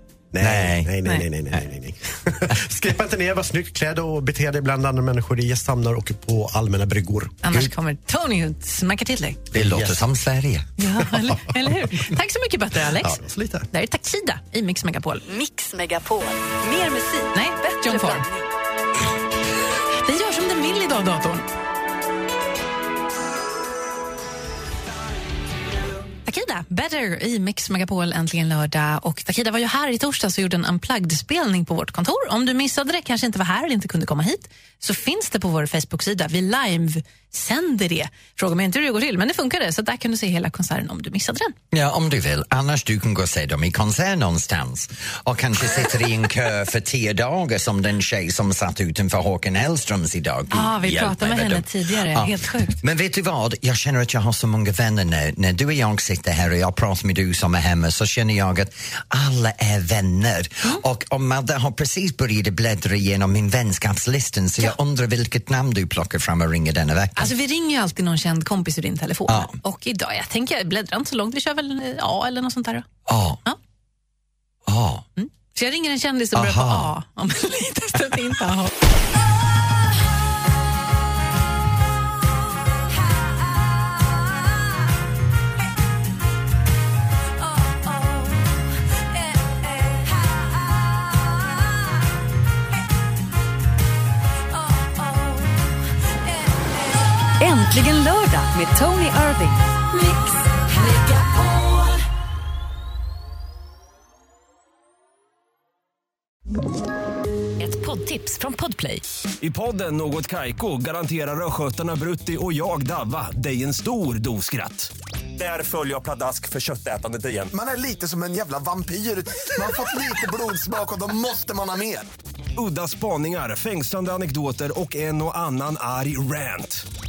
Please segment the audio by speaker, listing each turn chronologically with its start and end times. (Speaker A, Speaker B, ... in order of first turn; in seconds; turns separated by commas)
Speaker A: 0.3-7.7, Speaker B: 0.4-0.9, Speaker C: 7.4-9.4, Speaker B: 9.5-10.7, Speaker A: 9.5-10.1, Speaker C: 10.8-15.2, Speaker A: 13.0-13.7, Speaker D: 15.3-18.2, Speaker C: 17.3-18.2, Speaker C: 20.0-21.5, Speaker C: 26.3-41.5, Speaker B: 41.7-67.3, Speaker C: 50.5-52.8, Speaker C: 67.2-72.9, Speaker B: 69.3-69.5, Speaker B: 73.1-73.4, Speaker B: 74.7-75.1, Speaker C: 75.2-78.7, Speaker B: 76.3-76.9, Speaker D: 97.4-100.2, Speaker D: 100.8-101.2, Speaker D: 107.6-109.0, Speaker E: 109.4-117.5, Speaker F: 117.5-122.1, Speaker E: 122.6-126.8